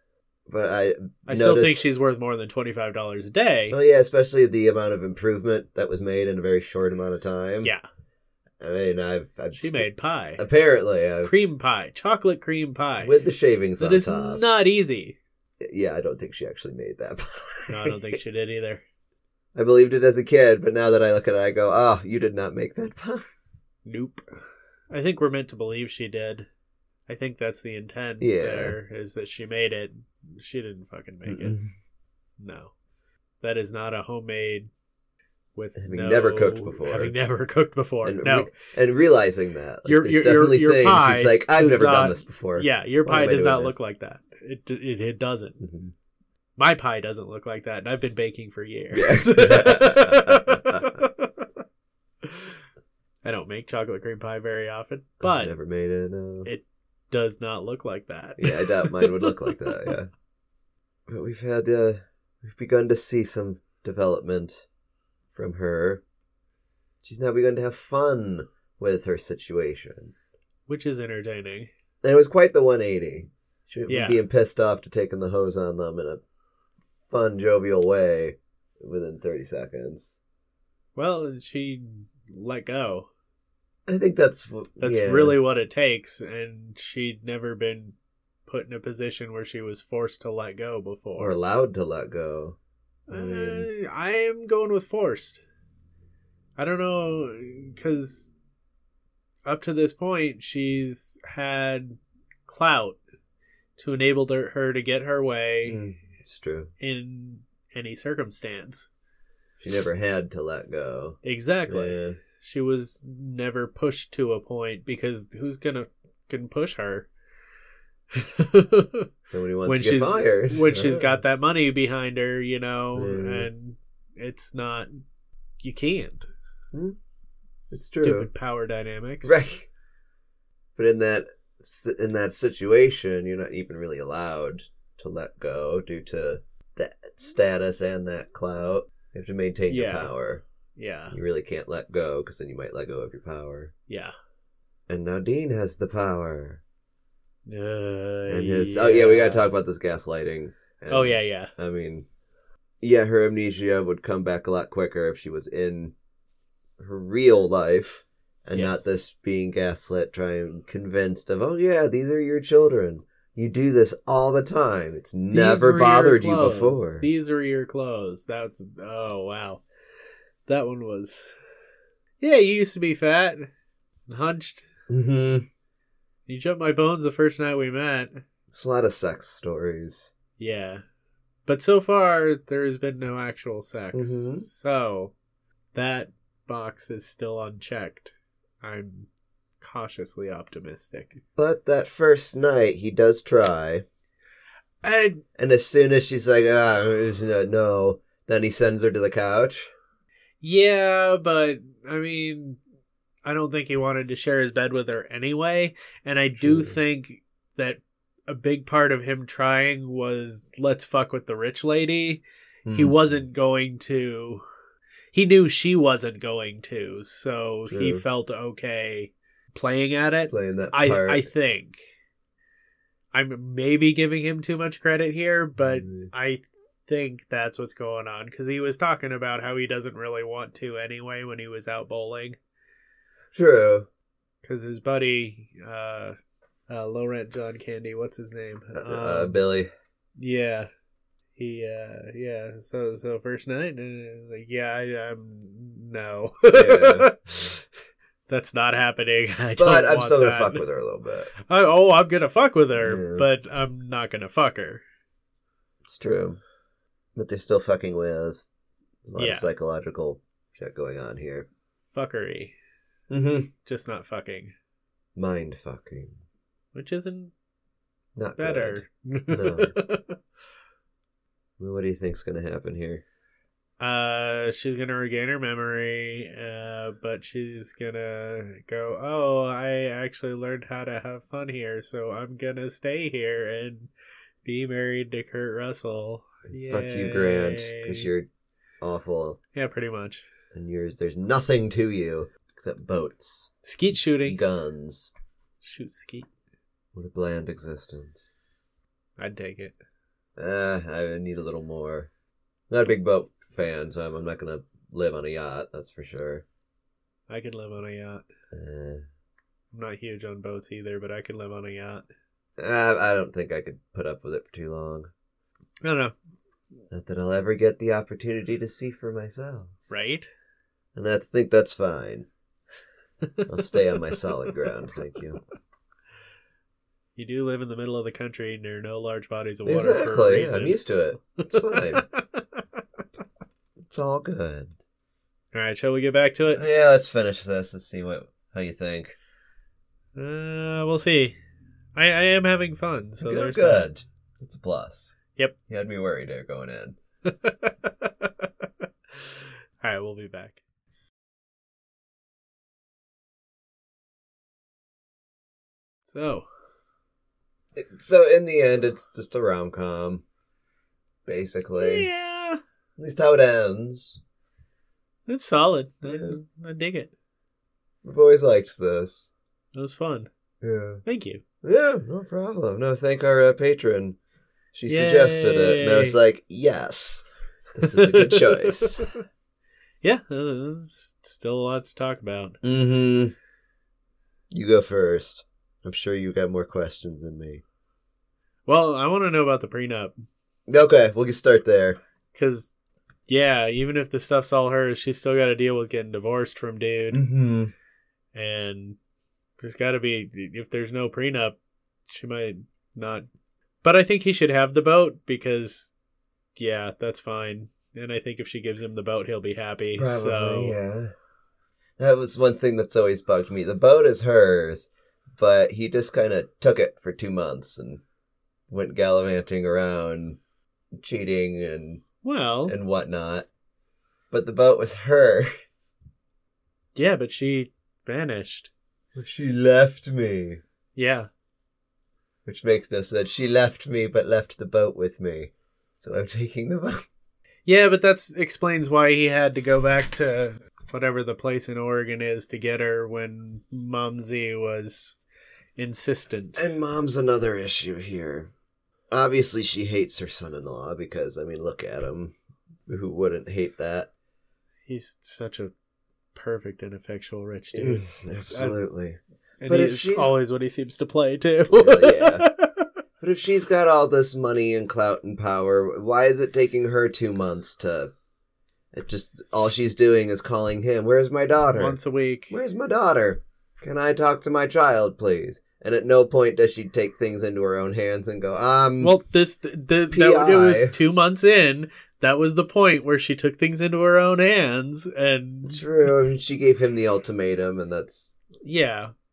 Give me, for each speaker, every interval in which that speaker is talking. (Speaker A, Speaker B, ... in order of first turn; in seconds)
Speaker A: 0.5-1.9, 3.7-7.7, 8.6-11.5, 13.0-14.4, 15.6-18.2, 19.6-23.2, 28.2-28.8, 31.3-31.7, 35.8-37.1, 38.0-43.8, 45.6-45.9, 48.9-50.9, 55.2-56.5, 58.4-60.1, 61.1-64.7, 65.3-66.0, 67.0-70.1, 72.0-76.2, 77.1-80.2, 83.9-85.4, 91.2-92.6, 93.1-93.7, 105.7-106.7, 109.6-112.2, 119.3-121.2, 123.0-123.5, 127.7-128.3, 129.2-129.7, 130.8-140.4, 141.1-143.7, 144.9-146.6, 148.3-152.1, 152.8-155.9, 156.8-167.1, 174.9-175.4, 178.5-180.1, 183.9-184.5, 191.4-193.8, 195.4-199.7, 206.4-206.8, 212.7-213.0, 217.7-218.0, 220.3-221.3, 225.6-226.1, 233.3-233.9, 238.7-239.7, 246.5-247.1, 249.6-251.3, 252.8-253.3, 255.8-256.4, 257.2-258.4, 259.1-261.5, 263.1-263.5, 265.2-266.1, 268.2-269.7, 271.6-273.0, 286.5-288.3, 288.8-289.4, 290.5-293.5, 294.2-295.1, 296.9-298.3, 300.4-302.1, 302.7-306.4, 308.5-309.0, 312.6-315.1, 316.9-319.7, 320.9-322.3, 323.5-325.4, 329.6-332.1, 333.9-334.8, 336.5-339.1, 343.2-345.2, 345.7-347.0, 357.8-360.2, 361.3-362.1, 363.0-364.2, 366.1-366.4, 368.0-369.3, 370.6-371.0, 371.6-374.2, 374.7-379.1, 382.6-383.4, 384.5-387.6, 390.7-392.0, 397.1-397.7, 410.0-411.1, 412.0-418.0, 418.7-420.4, 421.0-422.0, 422.7-423.5, 424.3-425.9, 429.2-430.6, 432.5-437.1, 446.6-448.5, 449.1-452.4, 452.9-454.1, 457.7-460.3, 461.7-462.5, 463.2-468.1, 468.9-472.0, 472.5-479.1, 480.1-480.9, 485.7-488.3
Speaker B: 1.3-3.8, 9.6-10.4, 11.2-13.1, 13.8-15.2, 17.7-18.8, 23.9-24.2, 24.9-26.5, 27.1-31.6, 32.4-32.7, 33.4-34.7, 35.6-38.5, 39.9-45.6, 46.6-51.5, 52.2-52.6, 53.2-55.5, 56.5-59.9, 70.7-71.7, 73.9-74.2, 81.0-83.1, 84.8-88.0, 88.5-91.4, 93.1-95.4, 96.6-98.3, 99.5-103.0, 103.8-105.8, 106.8-108.9, 111.2-117.1, 118.1-119.1, 119.7-125.0, 125.6-126.3, 128.0-129.4, 139.7-140.1, 140.8-141.2, 143.9-144.2, 147.5-149.4, 150.9-151.5, 158.5-158.9, 165.3-169.6, 170.5-171.3, 172.2-173.5, 174.1-174.7, 176.3-178.2, 180.4-180.8, 181.5-185.1, 185.7-189.1, 189.6-191.2, 194.8-195.2, 200.4-202.6, 203.2-212.2, 212.7-214.4, 215.1-221.8, 223.1-232.4, 234.4-236.2, 236.7-239.4, 240.2-240.7, 241.4-247.6, 248.3-250.6, 251.4-254.8, 259.2-259.5, 261.9-262.5, 263.6-264.5, 266.7-267.3, 268.4-270.2, 273.8-283.9, 284.4-288.1, 289.5-290.3, 293.6-294.4, 295.6-296.3, 299.2-299.8, 307.3-308.2, 309.7-312.1, 315.8-316.1, 319.9-320.3, 323.2-324.7, 327.2-330.8, 331.4-332.8, 335.5-336.6, 340.2-341.4, 341.9-343.9, 347.2-350.6, 356.1-356.5, 361.8-362.6, 365.3-367.1, 369.7-370.3, 371.1-371.4, 374.9-376.2, 377.8-379.1, 380.0-382.6, 388.7-390.1, 392.4-392.7, 393.3-397.2, 398.3-399.0, 399.6-401.6, 402.1-403.3, 403.8-405.9, 406.6-410.8, 422.2-422.7, 426.9-428.7, 431.0-431.3, 437.7-445.1, 445.8-446.7, 454.9-455.7, 456.4-458.0, 459.6-462.9, 471.8-472.6, 479.0-485.8, 488.6-489.1